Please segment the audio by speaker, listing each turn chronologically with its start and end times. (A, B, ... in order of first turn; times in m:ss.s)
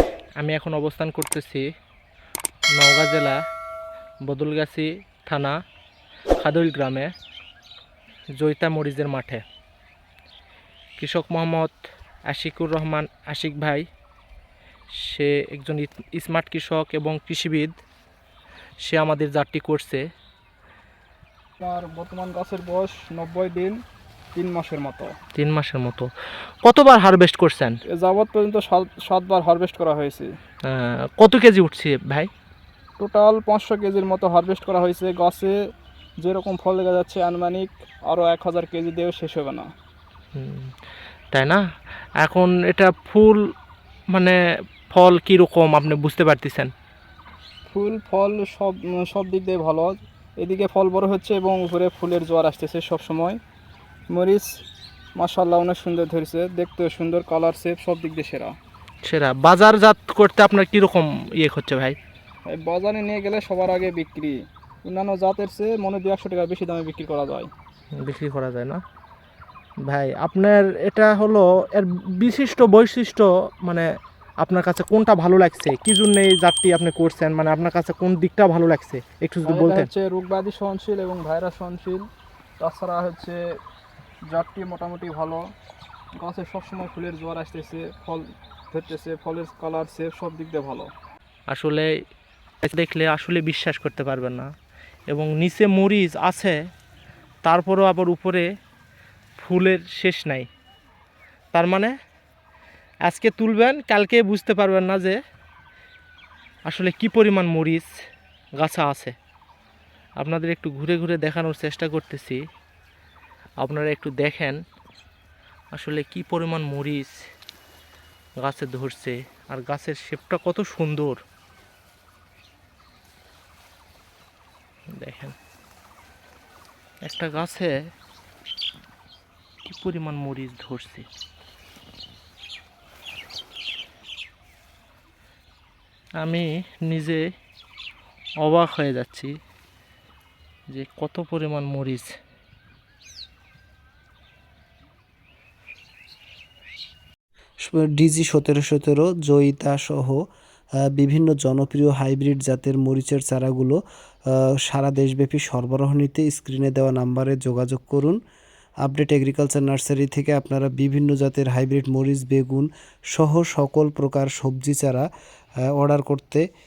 0:00.4-0:01.6 A
0:02.8-0:03.4 A
0:04.3-0:05.5 A
0:06.4-0:07.1 A
0:08.4-0:09.4 A
0:11.0-0:11.7 A
0:12.3-0:13.8 A
0:15.1-0:17.8 A
0:18.8-0:20.0 A
0:21.6-0:23.8 B
0:24.4-0:25.1 B
0:25.4-0:26.1 A
0:26.6-0:27.8 A
0:27.9-0:30.3 B
0:30.7-0:32.3 A
0:33.0-0:35.6 B
0:36.2-0:39.7 B
0:40.4-0:40.7 A
0:41.3-0:41.6 A
0:42.2-0:43.4 A
0:44.9-0:46.7 A
0:47.7-0:53.4 B
0:54.1-0:54.5 B
0:55.2-0:58.5 B
0:59.1-1:02.0 A
1:02.5-1:07.5 B
1:08.0-1:08.8 A
1:09.9-1:13.9 A
1:14.4-1:19.9 A
1:19.4-1:22.0 B
1:22.6-1:23.4 B
1:24.3-1:25.4 B
1:26.2-1:30.9 B
1:31.5-1:31.9 A
1:32.6-1:34.5 A
1:35.1-1:36.6 A
1:37.4-1:38.5 A
1:39.4-1:40.5 A
1:41.5-1:41.9 A
1:43.1-1:45.2 A
1:46.7-1:47.9 A
1:48.6-1:49.1 A
1:50.2-1:52.4 A
1:53.6-1:54.6 A
1:55.8-1:57.1 A
1:58.4-2:01.2 A
2:05.0-2:05.3 A
2:07.1-2:07.7 A
2:09.6-2:11.0 A
2:16.2-2:17.2 A
2:18.4-2:19.3 A
2:20.7-2:22.1 A
2:27.6-2:30.2 C
2:31.0-2:33.8 C
2:34.3-2:38.2 C
2:38.8-2:45.1 C
2:45.8-2:46.4 C